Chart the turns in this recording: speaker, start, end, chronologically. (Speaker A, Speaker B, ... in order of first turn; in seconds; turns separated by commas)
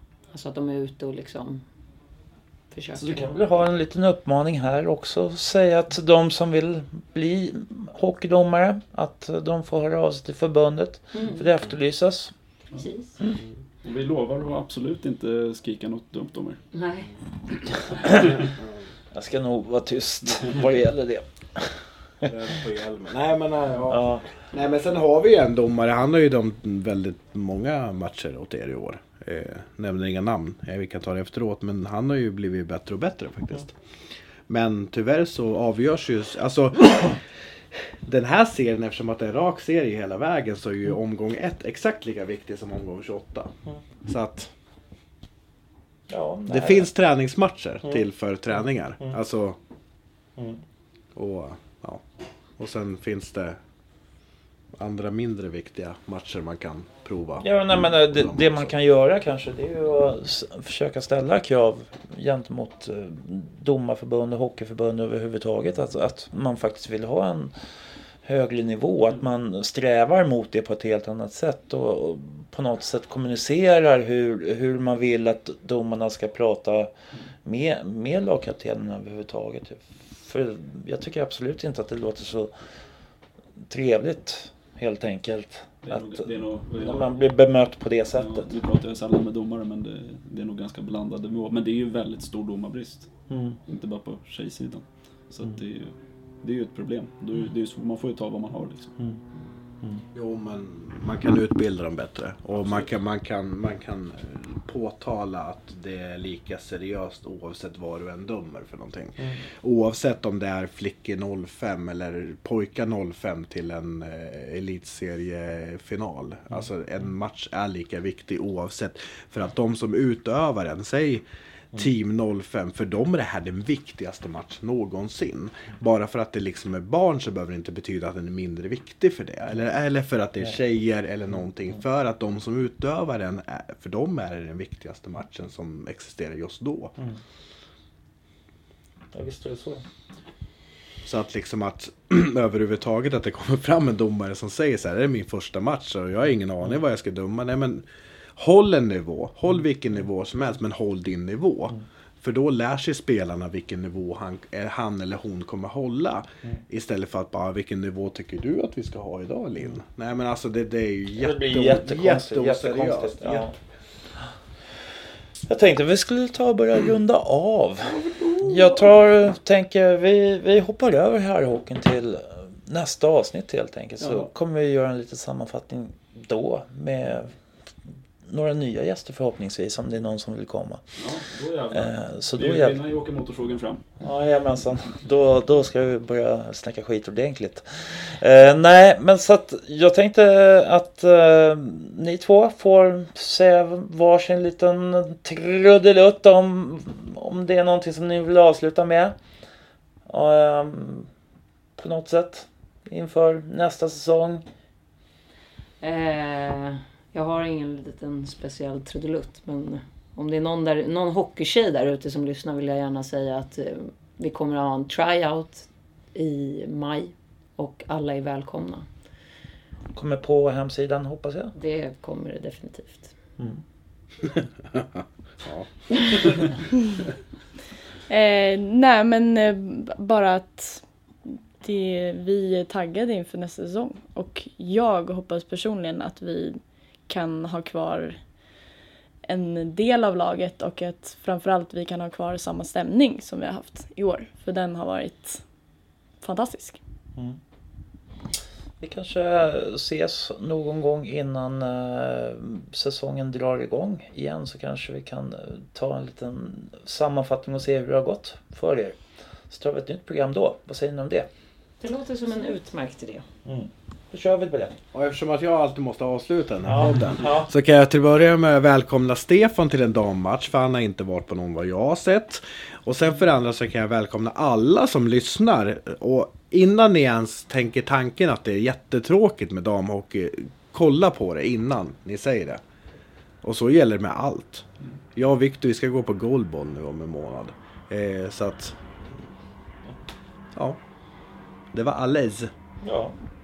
Speaker A: 0.3-1.6, Speaker A: 2.7-3.3, Speaker B: 3.0-12.3, Speaker A: 11.1-11.4, Speaker A: 12.7-13.2, Speaker C: 13.8-16.6, Speaker A: 16.7-17.1, Speaker B: 18.0-18.3, Speaker D: 18.4-18.8, Speaker B: 19.1-22.3, Speaker D: 22.2-33.8, Speaker B: 23.9-24.2, Speaker D: 34.5-37.2, Speaker D: 37.7-43.5, Speaker D: 44.0-44.5, Speaker B: 46.1-46.9, Speaker D: 46.5-49.6, Speaker B: 50.4-50.6, Speaker D: 51.1-52.0, Speaker D: 52.6-53.6, Speaker D: 54.7-58.7, Speaker B: 57.4-67.5, Speaker B: 68.2-76.9, Speaker B: 77.4-82.5, Speaker B: 83.7-88.5, Speaker C: 85.8-87.1, Speaker C: 88.1-93.1, Speaker B: 93.3-93.6, Speaker C: 93.7-98.9, Speaker D: 100.1-136.9, Speaker B: 139.1-139.8, Speaker D: 141.0-147.8, Speaker D: 148.4-163.5, Speaker B: 161.2-163.6, Speaker B: 165.5-177.3, Speaker C: 174.0-174.3, Speaker B: 178.3-180.8, Speaker C: 181.0-183.8, Speaker B: 181.7-182.8, Speaker B: 184.0-199.2, Speaker B: 200.1-201.1, Speaker B: 201.8-204.4, Speaker A: 205.8-218.8, Speaker B: 219.9-221.5, Speaker A: 221.5-223.1, Speaker D: 224.7-226.3, Speaker E: 228.1-238.2, Speaker E: 239.2-245.4, Speaker E: 246.2-246.8, Speaker B: 248.8-259.0, Speaker B: 259.5-261.3, Speaker A: 261.8-263.2, Speaker B: 263.4-264.8, Speaker D: 264.9-282.6, Speaker B: 266.7-267.5, Speaker D: 283.4-288.8, Speaker D: 290.5-290.8, Speaker D: 291.7-292.5, Speaker B: 292.8-293.1